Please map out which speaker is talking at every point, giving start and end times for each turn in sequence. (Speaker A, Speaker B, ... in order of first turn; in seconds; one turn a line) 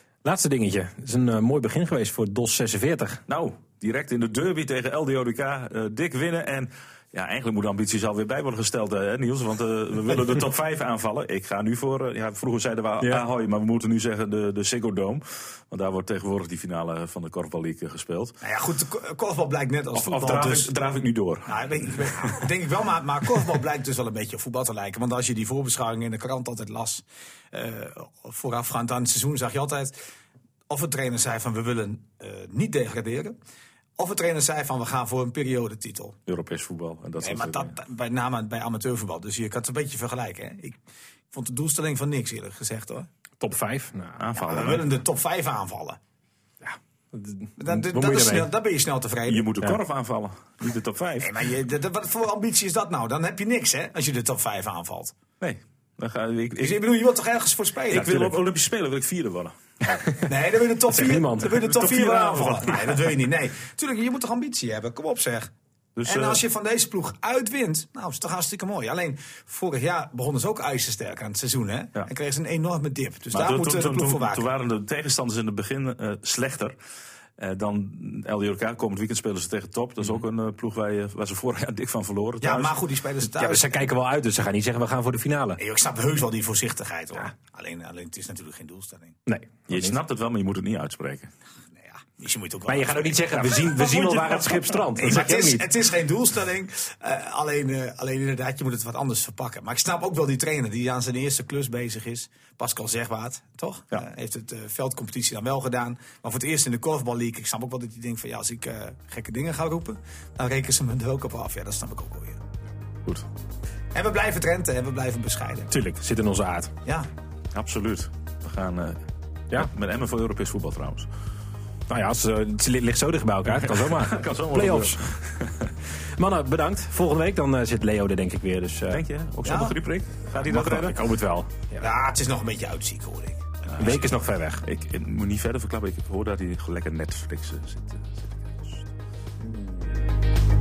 Speaker A: 0.2-3.2
Speaker B: 3.3-18.3
Speaker C: 18.4-20.7
Speaker B: 19.9-22.4
Speaker C: 21.5-29.9
Speaker C: 30.7-33.3
Speaker C: 34.0-36.2
Speaker B: 36.3-37.7
Speaker C: 37.2-40.8
Speaker C: 41.3-43.1
Speaker A: 43.4-44.2
Speaker B: 44.2-44.9
Speaker C: 44.4-46.0
Speaker A: 46.6-48.5
Speaker C: 47.6-49.5
Speaker B: 49.2-51.3
Speaker C: 51.2-55.1
Speaker B: 55.4-56.8
Speaker C: 56.6-58.3
Speaker B: 57.9-60.0
Speaker A: 58.0-58.3
Speaker C: 60.2-65.5
Speaker A: 60.9-61.7
Speaker B: 61.5-63.1
Speaker B: 66.0-66.4
Speaker C: 66.0-74.4
Speaker B: 73.3-76.7
Speaker B: 77.4-82.8
Speaker C: 82.4-83.8
Speaker A: 83.2-85.6
Speaker C: 85.6-89.2
Speaker A: 89.2-90.0
Speaker B: 89.7-91.3
Speaker C: 91.8-112.4
Speaker A: 92.7-95.6
Speaker C: 113.9-115.7
Speaker A: 115.7-116.7
Speaker B: 117.5-121.1
Speaker A: 121.9-125.1
Speaker B: 123.5-125.7
Speaker A: 126.2-129.0
Speaker B: 128.9-131.0
Speaker C: 129.4-129.8
Speaker A: 130.3-131.8
Speaker C: 131.8-134.0
Speaker B: 133.8-134.0
Speaker A: 133.8-134.6
Speaker B: 134.6-138.9